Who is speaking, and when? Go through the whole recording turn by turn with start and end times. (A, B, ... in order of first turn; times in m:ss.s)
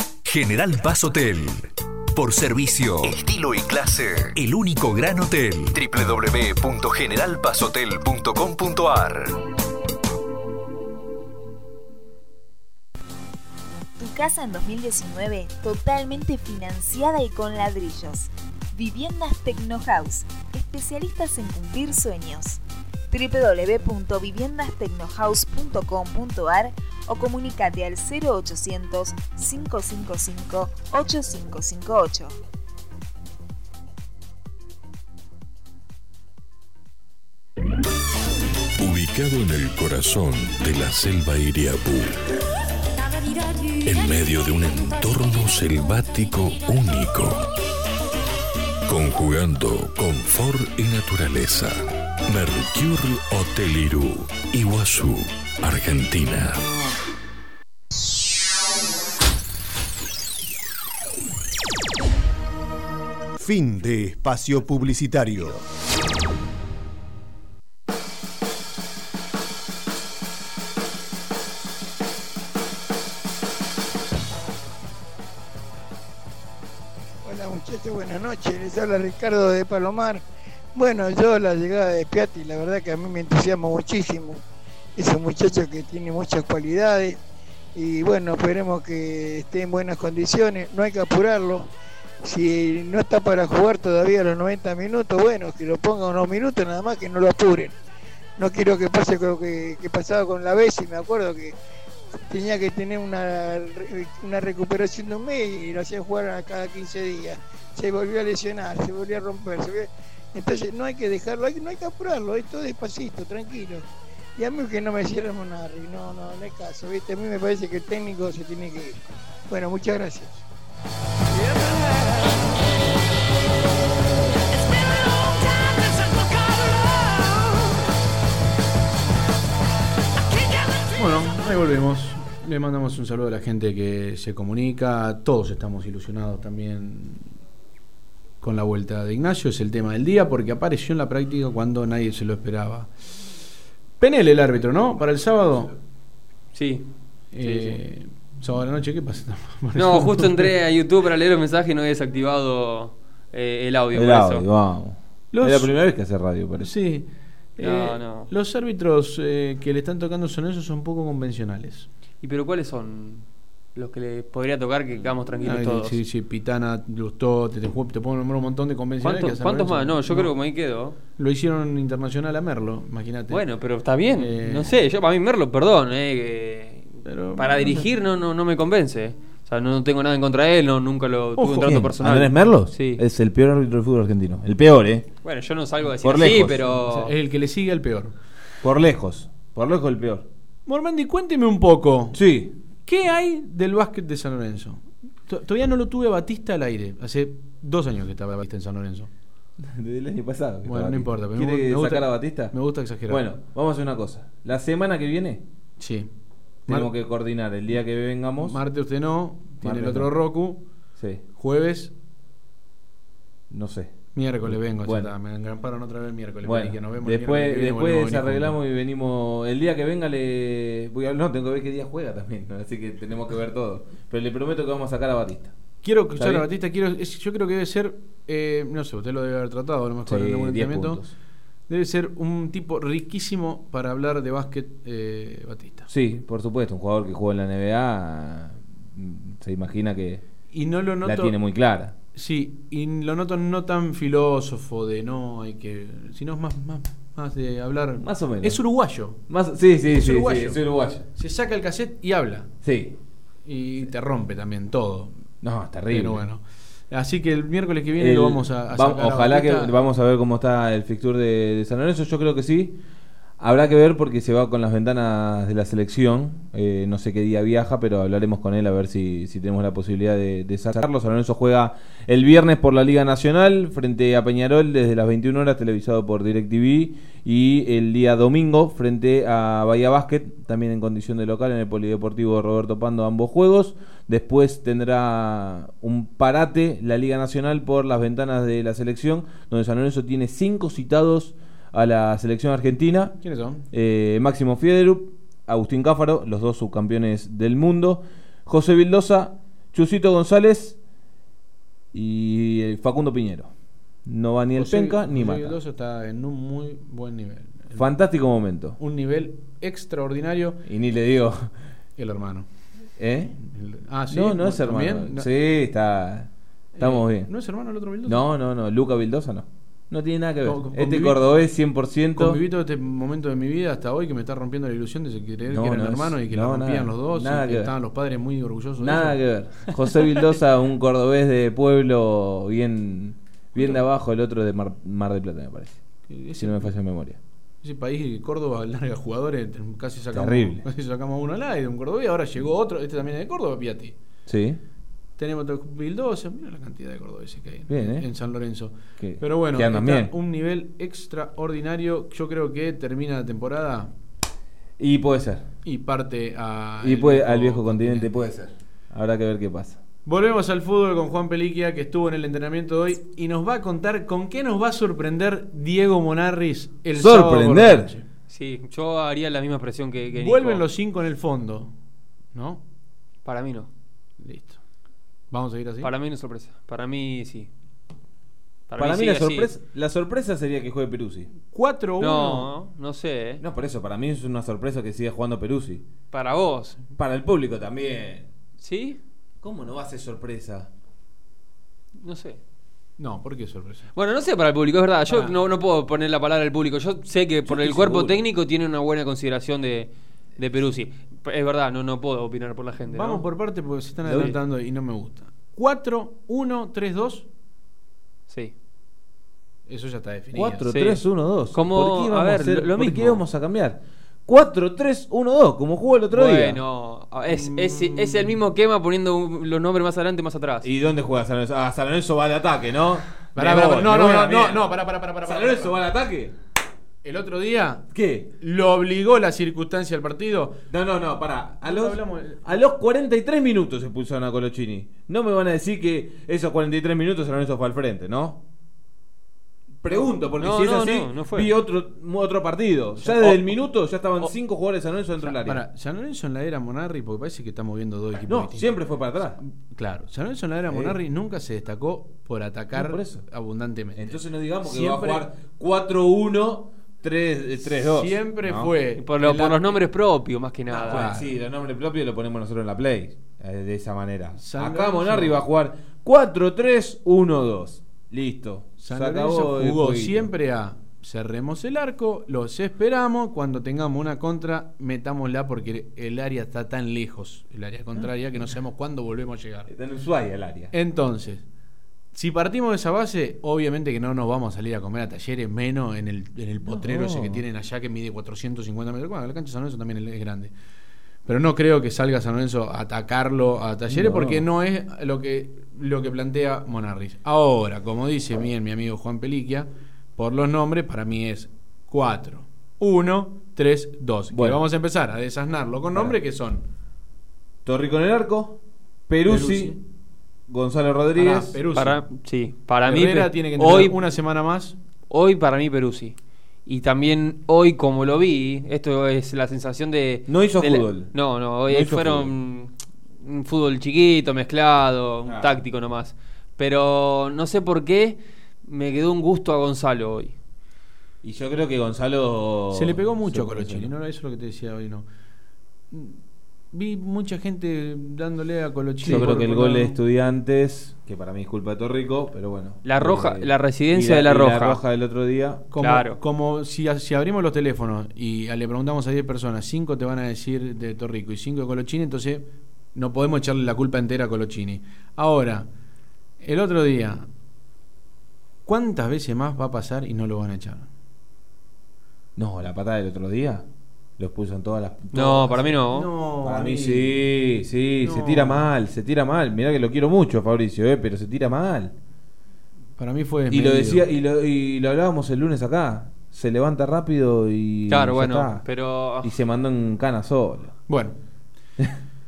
0:00.2-0:09.4 A
0:14.0-0:32.4 B
0:38.8-0:42.2 C
0:43.8-0:47.4 C
0:48.9-0:56.6 C
1:03.4-1:05.6 D
1:17.2-1:20.2 E
1:20.8-1:24.4 E
1:25.0-1:27.2 E
1:27.8-1:31.7 E
1:32.3-1:37.8 E
1:38.4-1:41.6 E
1:42.2-1:53.8 E
1:54.4-2:00.3 E
2:11.0-2:17.3 F
2:18.4-2:22.9 F
2:24.0-2:25.8 F
2:26.5-2:27.8 G
2:27.3-2:30.5 F
2:29.8-2:34.5 G
2:33.9-2:36.7 H
2:35.3-2:35.9 F
2:36.6-2:41.9 F
2:37.6-2:38.3 G
2:42.2-2:46.0 G
2:45.1-2:50.6 F
2:49.0-2:51.0 G
2:51.2-2:54.8 F
2:53.3-3:03.0 G
2:57.0-2:57.9 F
3:01.4-3:01.7 F
3:01.4-3:05.1 H
3:05.2-3:07.1 G
3:06.0-3:06.7 H
3:06.8-3:08.2 F
3:08.6-3:10.3 H
3:10.7-3:12.2 F
3:12.1-3:12.5 H
3:12.8-3:19.1 F
3:19.6-3:22.5 H
3:20.6-3:23.2 F
3:23.1-3:25.4 H
3:25.8-3:26.1 F
3:26.7-3:26.9 F
3:26.7-3:28.6 H
3:28.4-3:30.7 F
3:29.6-3:30.1 H
3:31.0-3:31.2 H
3:31.4-3:31.9 F
3:33.5-3:35.1 H
3:34.2-3:38.6 F
3:36.4-3:45.5 H
3:45.8-3:51.0 F
3:46.2-3:46.5 H
3:50.1-3:51.1 H
3:51.7-3:55.9 F
3:55.9-4:00.2 H
4:00.5-4:01.4 F
4:01.0-4:02.0 H
4:02.1-4:09.2 F
4:08.0-4:08.6 H
4:09.3-4:11.0 H
4:09.9-4:12.5 F
4:12.6-4:13.0 H
4:13.4-4:15.2 F
4:15.4-4:16.2 H
4:15.9-4:19.8 F
4:18.0-4:22.8 H
4:23.4-4:53.2 H
4:53.2-4:53.7 F
4:53.7-5:00.8 H
5:01.9-5:03.5 H
5:04.1-5:05.6 H
5:04.6-5:07.9 F
5:07.8-5:08.8 H
5:08.8-5:10.6 F
5:10.6-5:11.5 H
5:12.0-5:12.5 F
5:13.0-5:13.4 H
5:13.4-5:15.3 F
5:14.1-5:17.3 H
5:16.8-5:18.3 F
5:18.0-5:22.4 H
5:20.4-5:21.2 F
5:22.2-5:29.7 F
5:25.5-5:27.7 H
5:28.8-5:35.8 H
5:36.1-5:36.8 F
5:36.4-5:37.2 H
5:37.6-5:44.0 F
5:40.1-5:40.6 H
5:44.3-5:44.6 H
5:45.2-5:53.9 F
5:47.7-5:48.1 H
5:49.0-5:50.1 H
5:54.8-5:55.5 H
5:55.6-5:58.1 F
5:56.8-5:59.8 H
6:00.0-6:08.1 F
6:07.0-6:07.9 H
6:08.3-6:10.6 G
6:10.1-6:11.7 F
6:12.3-6:12.6 F
6:13.2-6:13.7 G
6:14.2-6:14.6 F
6:15.3-6:15.9 F
6:15.8-6:17.5 G
6:18.7-6:19.5 G
6:18.8-6:21.3 H
6:21.4-6:22.5 F
6:22.0-6:23.4 G
6:23.4-6:25.8 H
6:26.1-6:26.9 G
6:27.0-6:28.3 H
6:28.6-6:29.0 G
6:29.4-6:30.7 H
6:32.0-6:32.4 G
6:33.0-6:33.9 F
6:34.0-6:43.2 G
6:35.1-6:35.4 F
6:37.4-6:38.3 H
6:42.9-6:47.3 F
6:44.0-6:44.4 H
6:44.1-6:44.4 G
6:48.3-6:48.5 G
6:49.7-6:50.7 F
6:50.3-6:56.6 H
6:50.7-6:53.2 G
6:56.1-7:00.7 G
6:57.2-6:58.4 F
7:00.6-7:04.7 H
7:03.4-7:05.8 F
7:05.2-7:06.3 H
7:07.0-7:07.9 F
7:07.9-7:08.3 H
7:08.4-7:10.6 F
7:10.7-7:18.4 H
7:11.6-7:12.6 F
7:19.8-7:25.6 H
7:20.4-7:21.5 G
7:23.0-7:23.6 F
7:25.2-7:28.9 F
7:28.3-7:29.4 H
7:29.4-7:35.3 F
7:30.7-7:31.0 H
7:32.7-7:33.2 H
7:34.0-7:38.7 H
7:37.8-7:39.8 F
7:39.0-7:41.1 G
7:40.7-7:41.4 F
7:40.9-7:50.3 H
7:44.4-7:45.4 F
7:48.8-7:59.7 F
7:59.7-8:00.7 H
8:00.7-8:01.4 F
8:02.1-8:10.5 F
8:06.7-8:07.4 H
8:11.3-8:26.6 F
8:13.9-8:14.4 H
8:24.3-8:24.6 H
8:27.6-8:29.8 H
8:29.2-8:29.8 F
8:30.5-8:31.6 H
8:31.2-8:32.1 F
8:31.7-8:34.0 G
8:32.8-8:34.8 F
8:35.1-8:50.4 G
8:40.3-8:42.3 H
8:45.3-8:45.6 H
8:51.2-8:53.9 H
8:52.7-8:55.1 F
8:55.9-8:56.2 F
8:56.7-9:00.0 F
8:59.0-9:05.7 H
9:02.8-9:04.8 G
9:05.7-9:15.7 F
9:05.8-9:06.2 G
9:16.4-9:17.3 F
9:18.6-9:20.9 F
9:22.4-9:23.7 H
9:24.2-9:25.6 H
9:25.1-9:26.1 G
9:25.2-9:27.2 F
9:26.4-9:31.9 H
9:28.0-9:28.7 F
9:33.0-9:34.1 F
9:33.5-9:38.6 H
9:37.9-9:39.4 G
9:39.2-9:40.8 H
9:40.9-9:41.2 F